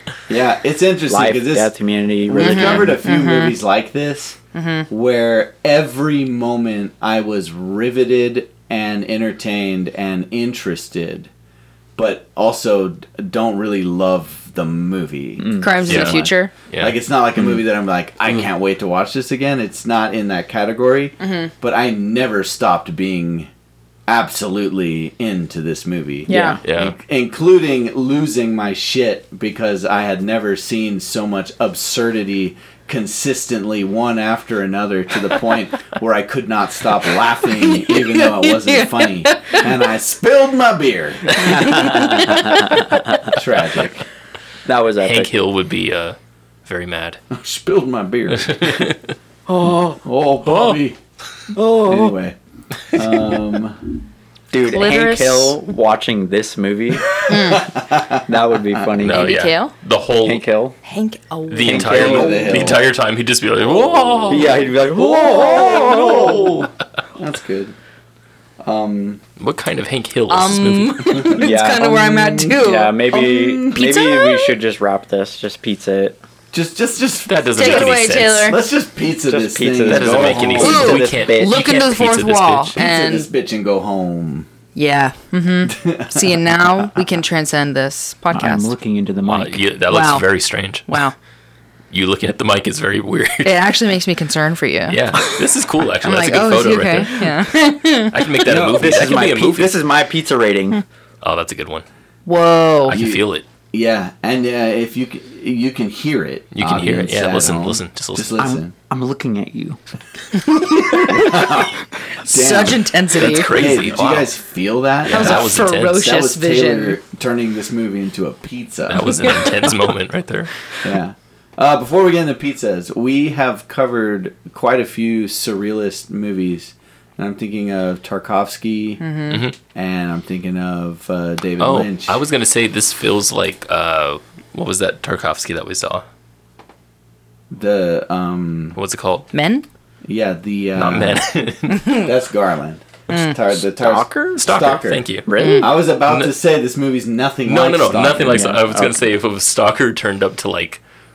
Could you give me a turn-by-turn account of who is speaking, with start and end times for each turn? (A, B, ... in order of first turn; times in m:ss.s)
0:00.3-0:01.7 A
0:01.1-0:03.0 B
0:02.3-0:04.4 A
0:02.4-0:03.6 C
0:04.5-0:04.9 C
0:04.9-0:11.3 A
0:12.0-0:16.2 A
0:15.4-0:16.2 B
0:15.6-0:16.5 C
0:15.9-0:17.0 D
0:16.8-0:23.5 A
0:21.2-0:21.5 C
0:24.1-0:41.9 A
0:26.3-0:26.6 B
0:26.3-0:26.6 C
0:26.6-0:27.0 D
0:37.5-0:39.7 C
0:41.4-0:42.8 C
0:41.4-0:43.3 B
0:43.3-0:44.0 A
0:44.7-0:45.3 B
0:45.0-0:47.2 D
0:47.3-0:48.9 A
0:48.3-0:49.1 D
0:49.5-0:50.0 B
0:50.0-0:51.0 A
0:50.5-0:50.8 D
0:51.5-0:52.1 B
0:51.8-0:52.4 A
0:52.9-0:53.9 A
0:54.5-0:57.2 B
0:54.7-0:55.6 C
0:57.3-0:57.7 C
0:57.3-0:58.2 A
0:58.3-0:59.3 B
0:59.0-1:00.4 D
0:59.1-0:59.7 C
1:00.2-1:00.8 B
1:00.8-1:01.9 C
1:01.5-1:06.7 D
1:01.7-1:02.8 B
1:01.7-1:02.9 A
1:04.3-1:06.7 B
1:05.0-1:07.8 A
1:08.6-1:09.2 A
1:09.4-1:11.2 D
1:10.3-1:14.6 C
1:11.1-1:12.5 A
1:11.4-1:16.2 B
1:13.1-1:14.0 A
1:16.5-1:21.0 A
1:17.3-1:18.6 D
1:17.6-1:18.6 C
1:19.3-1:21.6 B
1:19.9-1:22.8 D
1:20.6-1:23.3 C
1:22.8-1:24.5 A
1:24.8-1:28.7 C
1:25.7-1:27.0 A
1:28.3-1:29.6 B
1:29.3-1:30.9 D
1:29.9-1:30.3 C
1:30.9-1:31.2 C
1:31.9-1:33.5 D
1:33.4-1:35.4 C
1:34.9-1:37.3 D
1:36.0-1:38.3 C
1:38.1-1:39.7 D
1:38.4-1:40.8 B
1:41.2-1:41.8 D
1:42.3-1:43.0 C
1:42.8-1:43.5 D
1:42.9-1:48.7 A
1:46.5-1:48.3 D
1:48.4-1:49.8 B
1:50.8-1:51.4 B
1:50.9-1:51.2 C
1:51.0-1:59.6 A
1:52.2-1:53.5 C
1:53.1-1:54.3 D
1:55.0-1:56.0 D
1:55.1-1:57.0 C
1:58.9-2:00.5 D
2:00.8-2:09.0 A
2:09.0-2:09.4 C
2:09.3-2:09.6 D
2:09.7-2:12.2 A
2:11.6-2:16.0 D
2:17.5-2:18.8 A
2:18.8-2:19.3 D
2:19.3-2:19.7 C
2:20.0-2:21.3 A
2:20.8-2:21.9 D
2:21.7-2:22.1 C
2:21.9-2:28.6 A
2:23.1-2:23.4 C
2:23.8-2:24.7 B
2:24.4-2:25.3 D
2:25.3-2:25.8 B
2:25.4-2:25.7 C
2:26.1-2:26.3 D
2:27.4-2:30.8 D
2:28.3-2:29.1 B